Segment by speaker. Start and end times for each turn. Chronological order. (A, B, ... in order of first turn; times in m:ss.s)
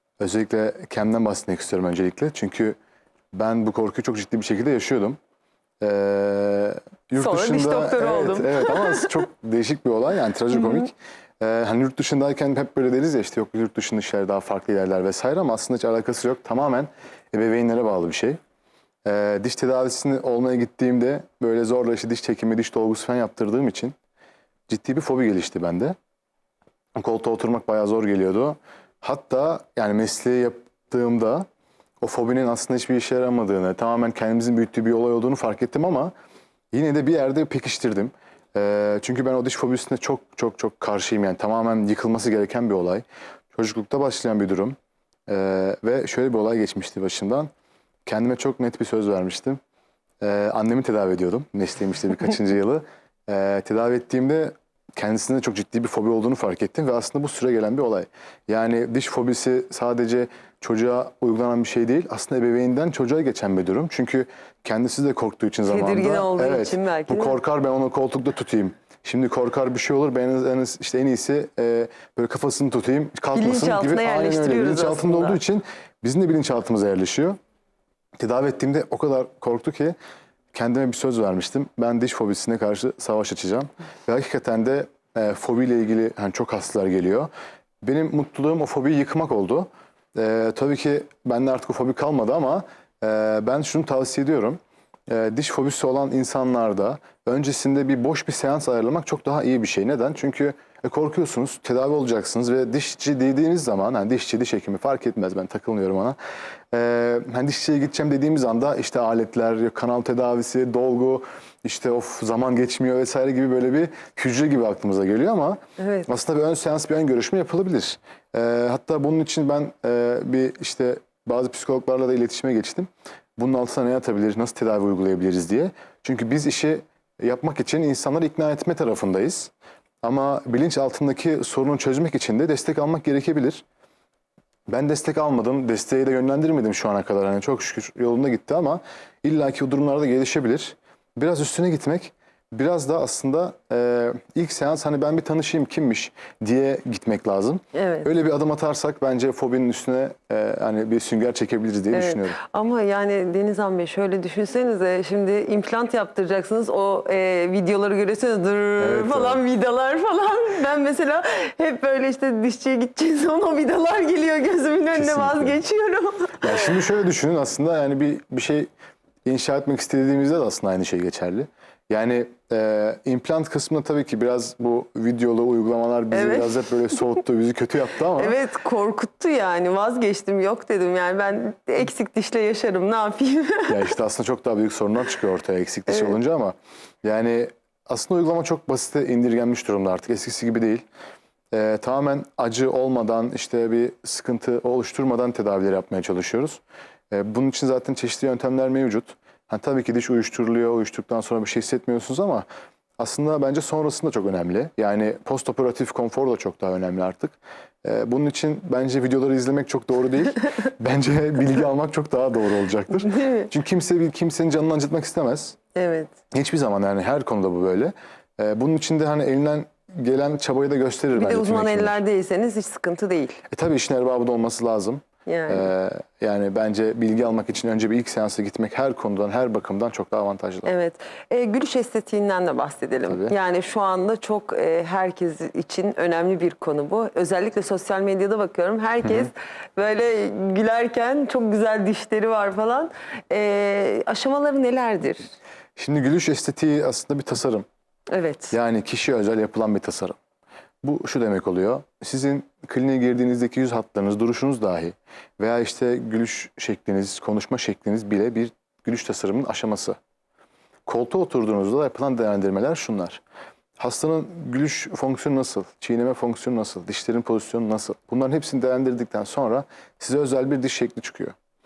0:00.2-0:02.8 A
0:03.3-0:05.2 A
0:05.8-0:18.4 A
0:07.1-0:09.2 B
0:10.5-0:10.9 B
0:19.0-0:23.9 A
0:24.7-0:26.0 A
0:27.0-0:31.5 A
0:32.0-0:36.1 A
0:36.7-0:44.8 A
0:45.3-0:47.5 A
0:48.0-0:49.6 A
0:50.2-1:17.4 A
1:05.6-1:07.4 B
1:13.3-1:15.4 B
1:18.2-1:20.0 A
1:20.5-1:27.3 A
1:27.8-1:46.2 A
1:46.7-2:09.5 A
1:55.8-1:56.1 B
2:10.0-2:13.6 A
2:14.7-2:32.4 A
2:27.7-2:28.1 B
2:31.9-2:46.8 B
2:38.8-2:39.4 A
2:44.9-2:45.6 A
2:46.4-2:48.7 A
2:49.2-2:58.4 A
2:56.1-2:57.0 B
2:58.1-3:03.9 B
3:03.7-3:10.8 A
3:05.9-3:06.2 B
3:11.5-3:22.4 A
3:23.0-3:35.6 A
3:32.9-3:33.5 B
3:35.7-3:36.1 B
3:36.3-3:42.0 A
3:41.1-3:43.4 B
3:43.5-3:50.7 A
3:45.2-3:45.7 B
3:50.6-4:05.3 B
3:53.1-3:53.3 A
4:05.8-4:07.6 A
4:08.1-4:08.6 B
4:08.5-4:10.2 A
4:10.8-4:20.0 A
4:20.8-4:23.2 A
4:23.8-4:31.3 A